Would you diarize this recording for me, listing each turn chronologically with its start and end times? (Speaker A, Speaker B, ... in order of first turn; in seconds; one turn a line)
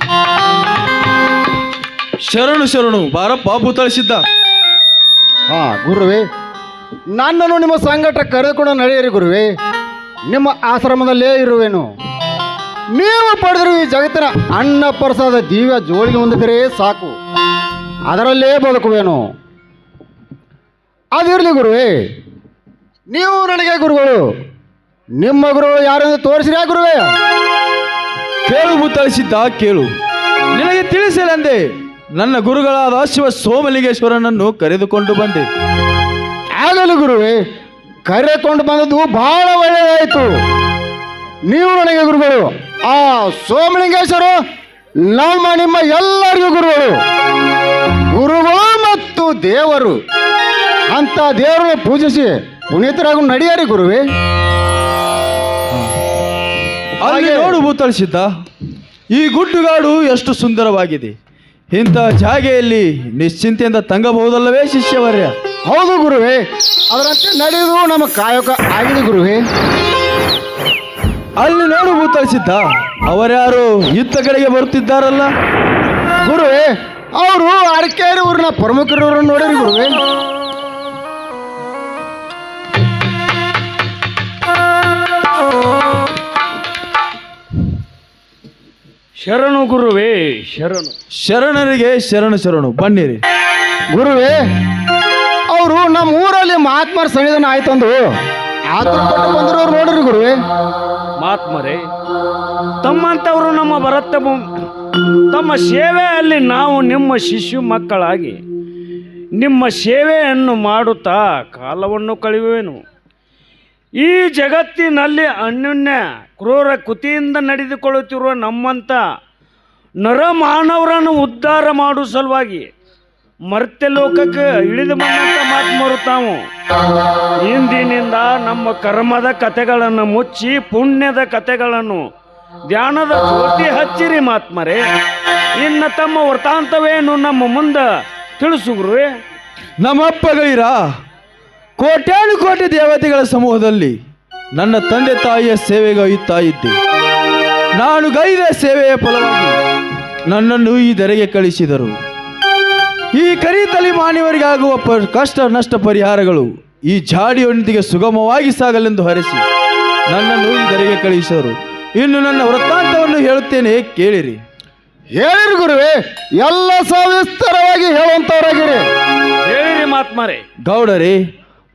Speaker A: 2.3-4.2
Speaker B: 5.5-6.2
Speaker B: 7.1-9.5
Speaker B: 10.3-11.9
Speaker B: 12.9-17.1
Speaker B: 18.1-19.3
Speaker B: 21.1-22.1
Speaker B: 23.1-24.3
Speaker B: 25.2-27.1
Speaker A: 28.5-29.9
Speaker A: 30.5-31.6
Speaker A: 32.1-35.5
Speaker B: 36.6-37.4
Speaker B: 38.1-40.3
Speaker B: 41.5-44.4
Speaker B: 45.1-47.0
Speaker B: 48.1-50.0
Speaker B: 50.9-54.0
Speaker A: 57.0-58.3
Speaker B: 57.0-57.6
Speaker A: 59.1-61.1
Speaker A: 61.7-65.3
Speaker B: 65.7-69.4
Speaker A: 71.4-75.3
Speaker B: 76.2-79.9
Speaker C: 89.2-90.9
Speaker A: 91.2-93.2
Speaker B: 93.9-94.4
Speaker B: 95.5-98.1
Speaker B: 98.7-100.3
Speaker C: 101.2-101.8
Speaker C: 102.8-104.4
Speaker C: 105.3-108.4
Speaker C: 109.4-112.8
Speaker C: 114.0-119.0
Speaker C: 120.0-122.7
Speaker C: 123.5-126.4
Speaker C: 127.5-132.0
Speaker C: 132.7-134.8
Speaker C: 135.6-139.1
Speaker A: 139.8-140.8
Speaker A: 141.8-144.0
Speaker A: 144.5-146.8
Speaker A: 147.7-149.6
Speaker A: 150.3-151.9
Speaker A: 153.1-159.4
Speaker A: 160.1-164.4
Speaker B: 165.2-168.8
Speaker C: 169.5-170.4
Speaker A: 170.6-171.2